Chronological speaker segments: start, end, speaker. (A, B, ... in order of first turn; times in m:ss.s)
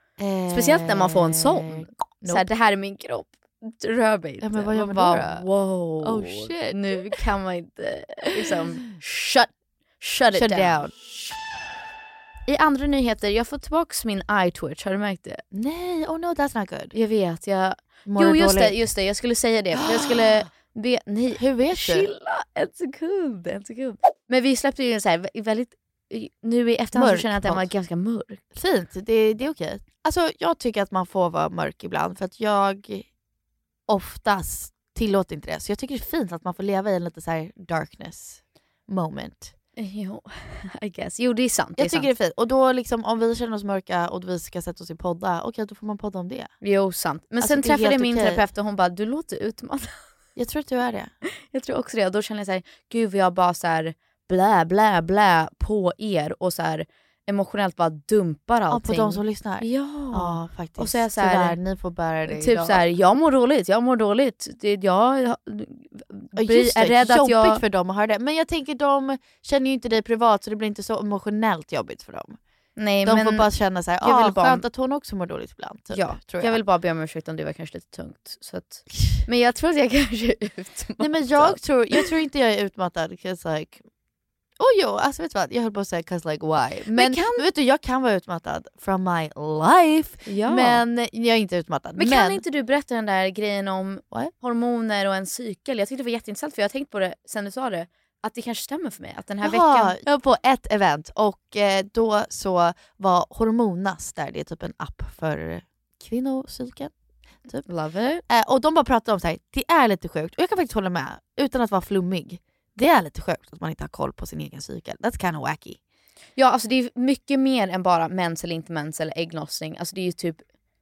0:00.2-0:02.4 A
0:00.5-0:10.8 B
0:04.4-0:05.4 A
0:06.0-0:07.2 A
0:10.3-0:10.9 A
0:12.4-0:15.4 B
0:15.5-0:16.9 A
0:16.9-0:28.4 B
0:18.0-0:18.8 A
0:19.8-0:20.4 A
0:21.3-0:22.1 A
0:26.9-0:27.7 A
0:28.5-0:33.1 A
0:33.9-0:39.5 A
0:39.8-0:42.1 B
0:41.8-0:46.5 A
0:46.6-0:50.0 B
0:47.4-0:48.4 A
0:50.4-0:51.1 A
0:51.5-1:01.6 B
0:58.7-1:02.8 A
1:02.2-1:07.6 B
1:06.3-1:12.4 A
1:12.8-1:14.6 B
1:13.0-1:16.6 A
1:15.9-1:22.1 B
1:21.0-1:23.8 A
1:24.6-1:32.4 A
1:26.9-1:27.4 B
1:30.2-1:30.8 B
1:32.0-1:40.0 B
1:39.4-1:46.9 A
1:47.6-1:48.2 B
1:48.3-1:55.8 A
1:56.4-2:00.4 B